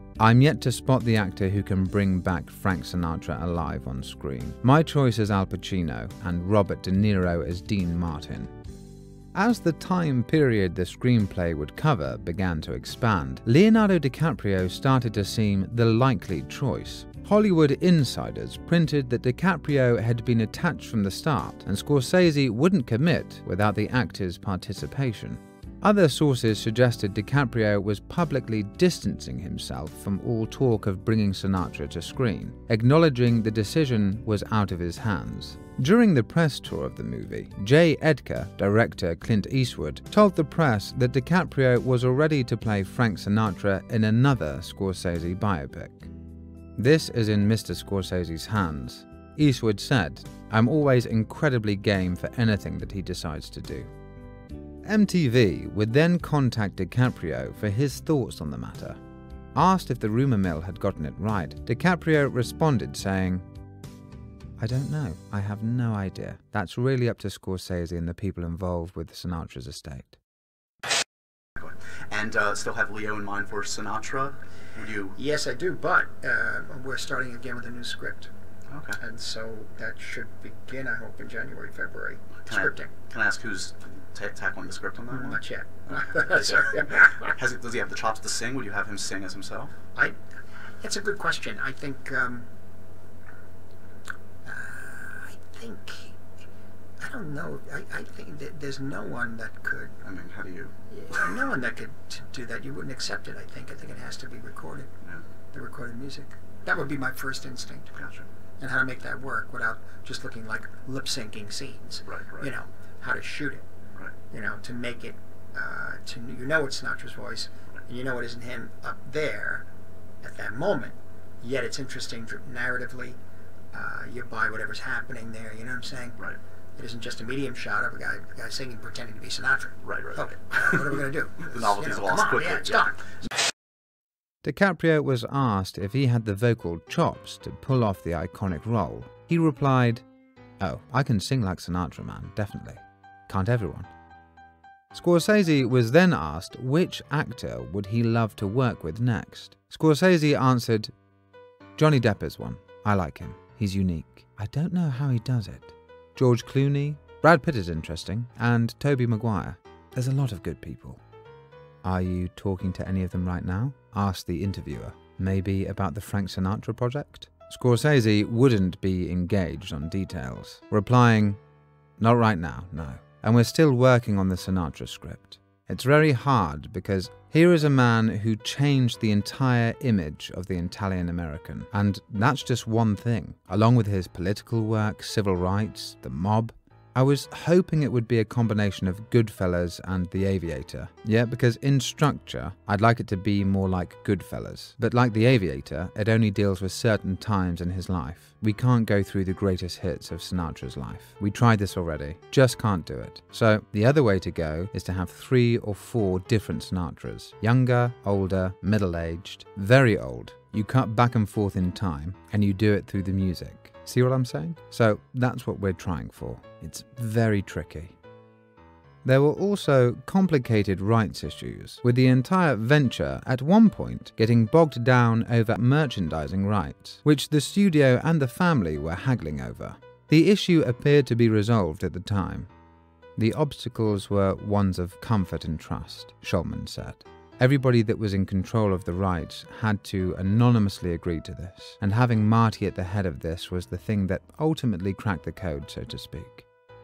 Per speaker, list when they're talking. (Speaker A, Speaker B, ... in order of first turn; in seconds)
Speaker A: 0.2-8.5, 9.3-46.1, 46.8-53.9, 54.9-59.0, 59.5-63.5, 64.6-70.2, 134.4-140.0, 140.6-143.9, 144.9-150.9, 151.8-161.0, 161.8-171.4, 172.0-218.0, 219.0-232.5, 233.2-246.5
Speaker B: 71.6-75.2, 78.7-79.0, 82.4-89.7, 100.0-101.4, 107.9-108.3, 112.1-112.5, 129.8-132.9
Speaker C: 75.2-78.3, 79.0-82.9, 85.1-87.3, 90.8-92.5, 94.5-96.1, 97.0-100.0, 100.9-104.9, 105.5-107.9, 108.6-113.6, 114.3-119.7, 120.2-123.2, 123.7-126.2, 126.8-133.2